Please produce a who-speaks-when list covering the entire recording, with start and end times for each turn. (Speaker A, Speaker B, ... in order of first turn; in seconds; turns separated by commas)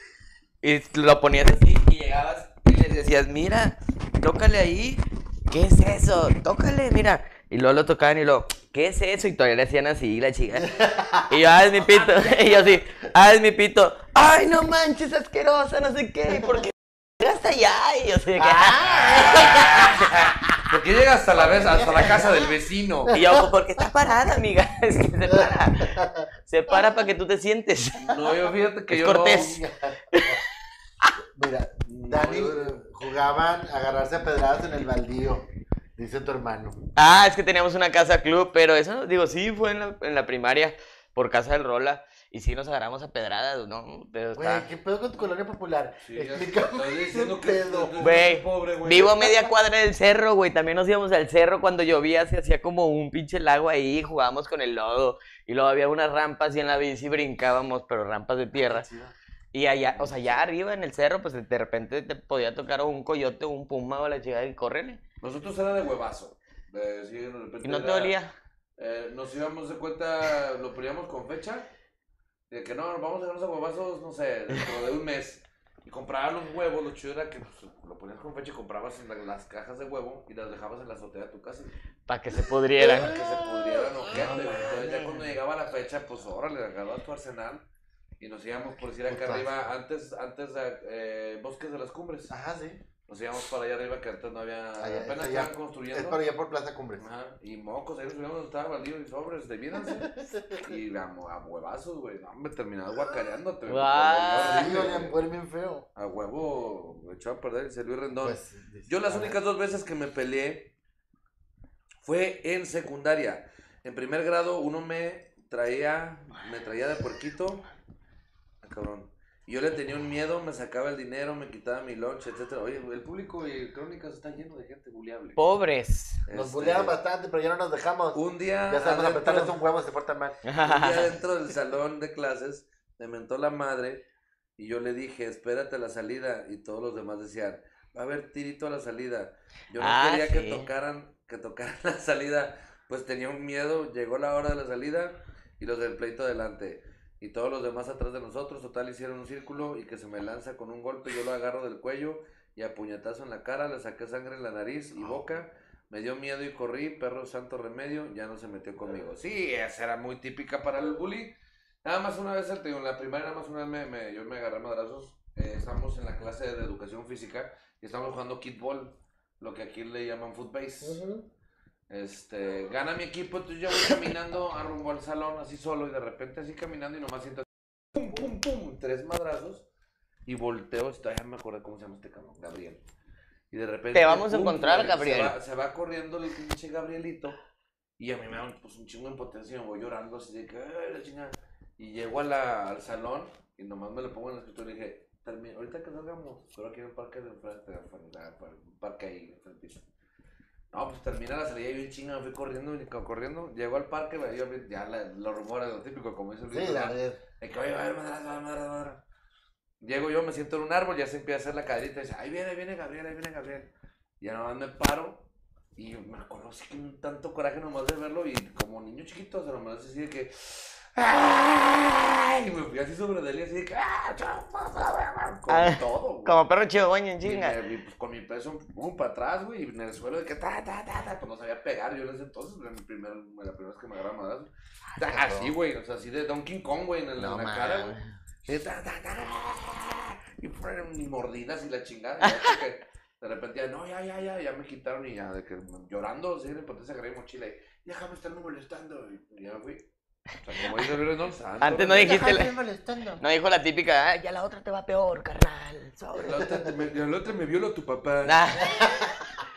Speaker A: 0.6-20.0, Speaker B: 10.6-11.4, Speaker B: 12.2-12.4, Speaker B: 18.3-19.8, Speaker C: 18.8-23.2, Speaker B: 21.3-22.6, Speaker B: 23.1-23.4, Speaker A: 23.1-28.2, Speaker B: 25.3-26.8, Speaker C: 28.0-29.6, Speaker A: 28.9-29.6, Speaker B: 29.3-30.4, Speaker A: 30.1-30.4, Speaker B: 31.3-35.5, Speaker C: 31.9-32.8, Speaker B: 36.0-36.8, Speaker A: 37.0-44.7, Speaker B: 44.4-48.1, Speaker C: 46.0-49.4, Speaker A: 48.0-58.9, Speaker B: 58.6-59.1, Speaker A: 59.5-65.0, Speaker C: 65.2-68.2, Speaker A: 67.6-68.3, Speaker C: 68.8-71.7, Speaker C: 72.5-81.7, Speaker A: 82.1-85.2, Speaker C: 82.8-87.7, Speaker B: 82.9-83.4, Speaker B: 84.1-84.6, Speaker C: 88.2-92.3, Speaker B: 89.1-89.5, Speaker B: 92.3-92.8, Speaker C: 93.1-96.2, Speaker B: 94.8-97.1, Speaker C: 97.0-105.2, Speaker B: 99.9-100.6, Speaker A: 103.7-104.8, Speaker B: 104.4-105.9, Speaker C: 106.0-110.7, Speaker B: 108.2-109.4, Speaker C: 112.0-117.7, Speaker C: 118.6-125.4, Speaker A: 125.4-126.2, Speaker C: 126.3-127.0, Speaker B: 126.3-130.4, Speaker C: 128.1-129.6, Speaker A: 130.4-131.1, Speaker C: 130.6-134.0, Speaker C: 134.6-171.0, Speaker A: 139.8-140.7, Speaker B: 170.8-171.2, Speaker C: 171.9-179.7, Speaker C: 180.3-182.8, Speaker C: 183.5-187.4, Speaker A: 183.9-185.4, Speaker C: 188.0-199.9, Speaker C: 200.7-209.0, Speaker B: 206.5-207.2, Speaker C: 209.8-226.4, Speaker A: 225.5-227.6, Speaker C: 227.2-249.9, Speaker B: 234.9-235.6, Speaker A: 237.2-238.1, Speaker A: 242.3-242.5, Speaker C: 250.4-252.3, Speaker A: 251.6-252.5, Speaker B: 251.9-253.2, Speaker A: 253.2-256.5, Speaker C: 256.1-258.4, Speaker A: 258.2-258.9, Speaker B: 258.7-259.3